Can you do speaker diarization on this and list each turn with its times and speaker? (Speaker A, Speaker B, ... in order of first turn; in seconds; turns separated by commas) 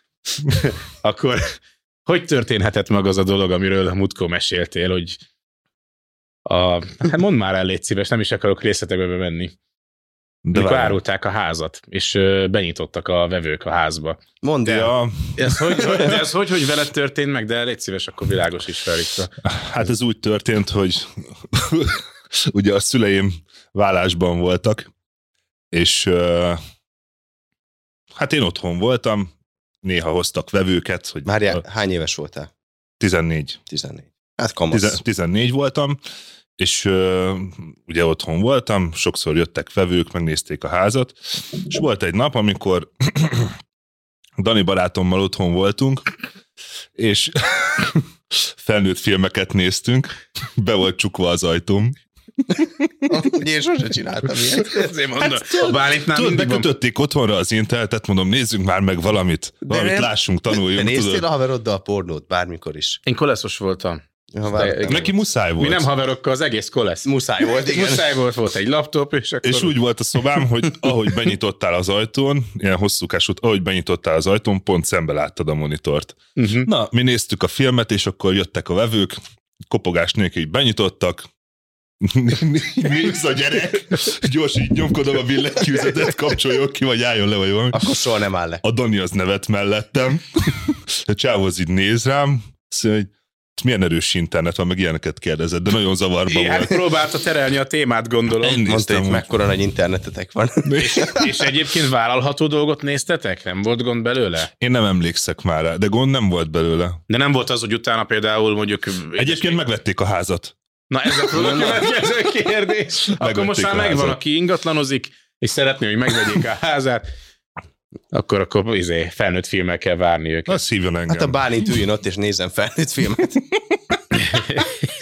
Speaker A: 0.5-5.2, Speaker A: 6.5-9.5, Speaker B: 10.4-11.0, Speaker A: 10.5-14.2, Speaker C: 14.4-14.9, Speaker B: 14.7-16.1, Speaker A: 15.3-19.3, Speaker B: 19.4-24.9, Speaker B: 25.7-26.6, Speaker B: 28.1-29.3, Speaker B: 29.8-31.6, Speaker C: 31.2-32.5, Speaker B: 33.0-33.6, Speaker C: 33.7-35.0, Speaker B: 34.7-36.0, Speaker B: 36.6-43.5, Speaker B: 44.4-46.0, Speaker B: 47.0-52.0, Speaker C: 53.1-54.9, Speaker A: 54.6-56.7, Speaker B: 55.7-61.2, Speaker C: 59.7-63.0, Speaker A: 63.0-69.7, Speaker C: 64.3-65.1, Speaker B: 64.9-65.9, Speaker C: 67.0-68.0, Speaker B: 69.4-81.3, Speaker A: 76.3-76.7, Speaker B: 82.0-87.8, Speaker C: 87.7-88.6, Speaker B: 88.6-96.8, Speaker A: 96.3-98.6, Speaker B: 98.4-99.3, Speaker C: 98.6-101.3, Speaker B: 100.7-101.0, Speaker A: 100.8-104.5, Speaker B: 104.6-107.0, Speaker A: 107.1-109.6, Speaker B: 109.2-110.5, Speaker A: 110.9-117.0, Speaker C: 111.3-111.8, Speaker B: 113.2-114.2, Speaker A: 118.1-120.6, Speaker B: 120.5-121.4, Speaker C: 121.1-123.4, Speaker A: 124.1-124.7